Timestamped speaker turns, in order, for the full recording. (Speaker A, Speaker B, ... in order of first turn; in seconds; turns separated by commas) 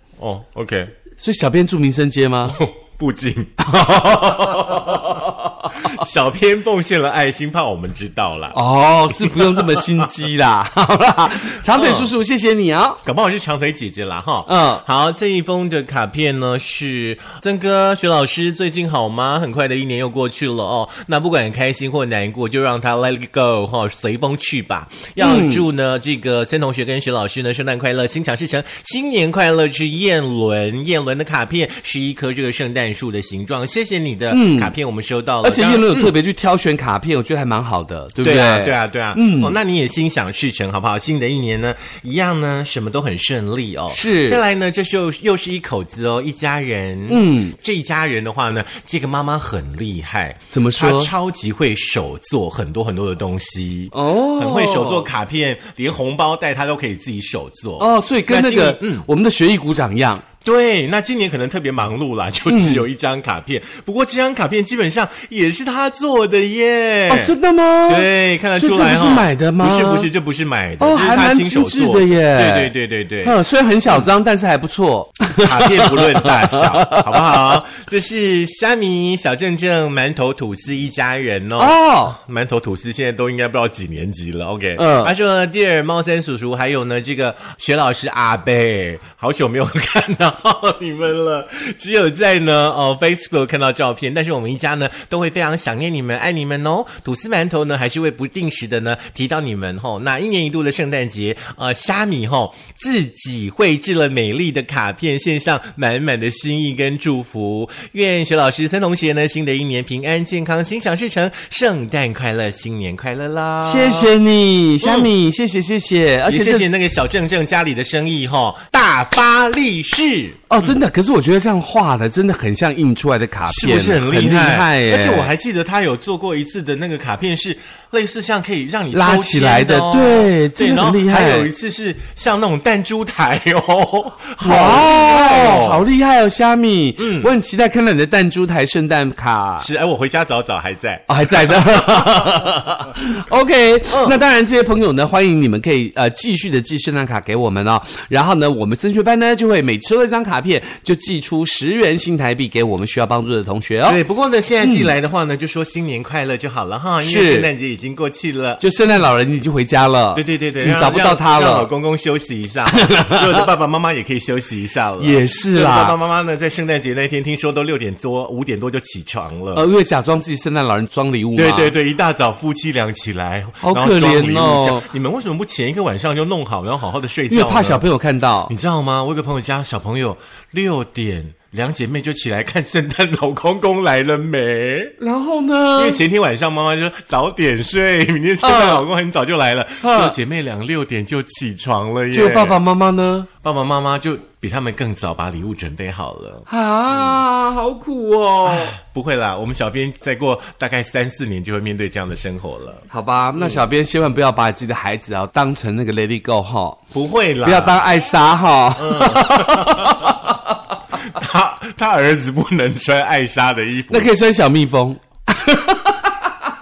Speaker A: 0.2-0.9, Speaker B: 1.2-2.6, Speaker A: 2.5-8.6, Speaker B: 3.7-5.9, Speaker B: 8.5-13.0, Speaker A: 9.1-10.1, Speaker A: 11.5-12.1, Speaker A: 13.0-36.1, Speaker B: 14.5-14.8, Speaker B: 25.2-25.6, Speaker B: 34.3-34.7, Speaker B: 35.4-39.5, Speaker A: 38.2-59.0, Speaker B: 43.9-44.4, Speaker B: 47.1-47.5, Speaker B: 50.5-51.1, Speaker B: 53.9-55.1, Speaker B: 57.8-60.2, Speaker A: 60.4-67.3, Speaker B: 62.5-62.8, Speaker B: 67.1-70.1, Speaker A: 67.9-73.4, Speaker B: 70.8-72.7, Speaker B: 73.2-77.5, Speaker A: 75.4-114.1, Speaker B: 81.6-82.2, Speaker B: 84.8-85.1, Speaker B: 113.6-116.7, Speaker A: 114.8-115.1, Speaker A: 116.3-120.7, Speaker B: 120.5-125.3, Speaker A: 123.5-135.8, Speaker B: 128.9-131.5, Speaker B: 134.4-139.7, Speaker A: 137.0-137.3, Speaker A: 139.6-142.6, Speaker B: 141.1-154.0, Speaker A: 143.9-144.2, Speaker A: 153.8-158.6, Speaker B: 154.6-154.9, Speaker B: 157.0-157.5, Speaker B: 158.6-161.7, Speaker A: 160.1-169.6, Speaker B: 162.7-163.4, Speaker B: 165.0-166.0, Speaker B: 169.5-171.7, Speaker A: 171.3-177.8, Speaker B: 173.6-174.8, Speaker B: 177.3-178.5, Speaker A: 178.5-184.9, Speaker B: 185.0-186.0, Speaker A: 185.8-192.6, Speaker B: 188.4-188.8, Speaker B: 189.8-190.1, Speaker B: 192.1-193.3, Speaker A: 193.4-197.2, Speaker B: 196.5-198.8, Speaker A: 198.4-202.8, Speaker B: 202.9-206.8, Speaker A: 203.4-203.7, Speaker A: 206.9-207.8, Speaker B: 207.4-210.4, Speaker A: 208.8-210.3, Speaker A: 210.9-214.1, Speaker B: 213.9-216.2